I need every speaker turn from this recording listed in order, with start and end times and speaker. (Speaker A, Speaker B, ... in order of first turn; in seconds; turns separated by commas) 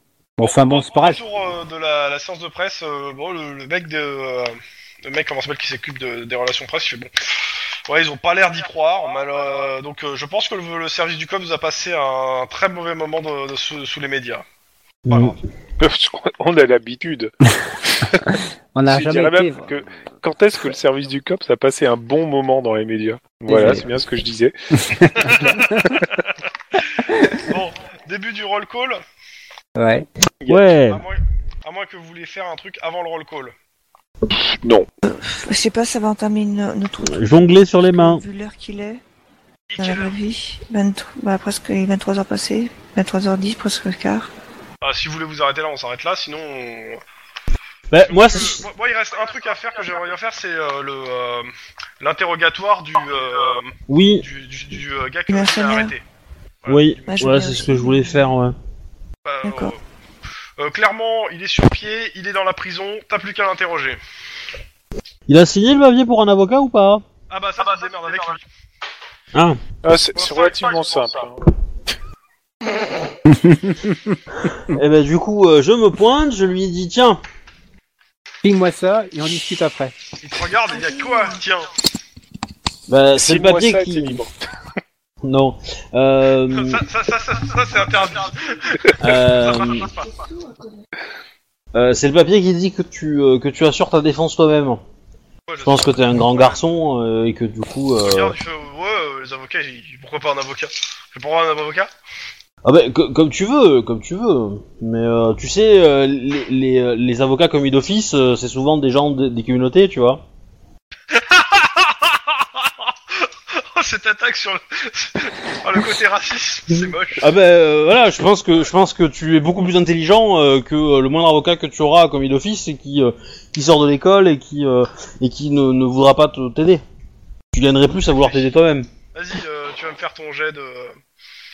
Speaker A: 0.4-1.2, Speaker B: 0.4-7.1, Speaker B: 7.9-14.4, Speaker C: 15.1-15.4, Speaker B: 15.1-15.4, Speaker D: 15.8-17.3, Speaker A: 18.7-19.7, Speaker D: 18.9-24.5, Speaker A: 23.5-23.8, Speaker A: 24.7-25.9, Speaker B: 25.1-25.4, Speaker D: 25.6-26.0, Speaker B: 27.4-29.0, Speaker A: 29.8-30.1, Speaker C: 30.5-31.0, Speaker B: 30.9-33.5, Speaker D: 34.6-34.9, Speaker E: 35.0-39.0, Speaker C: 37.0-38.2, Speaker B: 39.7-40.1, Speaker E: 39.8-44.3, Speaker B: 44.8-47.0, Speaker C: 47.9-48.6, Speaker B: 48.0-56.0, Speaker C: 53.9-54.2, Speaker E: 55.3-55.9, Speaker B: 56.6-57.0, Speaker C: 56.7-58.5, Speaker E: 57.1-58.3, Speaker B: 59.2-59.8, Speaker E: 59.4-59.7, Speaker B: 60.6-64.0, Speaker C: 65.3-67.0, Speaker B: 67.3-68.4, Speaker D: 69.8-71.4, Speaker B: 70.1-71.0, Speaker A: 73.3-73.9, Speaker C: 74.7-77.2, Speaker A: 78.4-79.9, Speaker B: 80.2-81.7, Speaker C: 82.9-84.2, Speaker D: 83.2-84.3, Speaker C: 85.2-86.8, Speaker B: 86.5-90.1, Speaker C: 89.0-89.9, Speaker C: 91.7-94.8, Speaker B: 95.5-96.6, Speaker C: 95.6-98.3, Speaker B: 98.0-101.9, Speaker C: 102.6-110.2, Speaker B: 111.1-117.3, Speaker C: 116.7-126.8, Speaker C: 127.5-128.9, Speaker B: 128.1-128.4, Speaker B: 129.1-131.0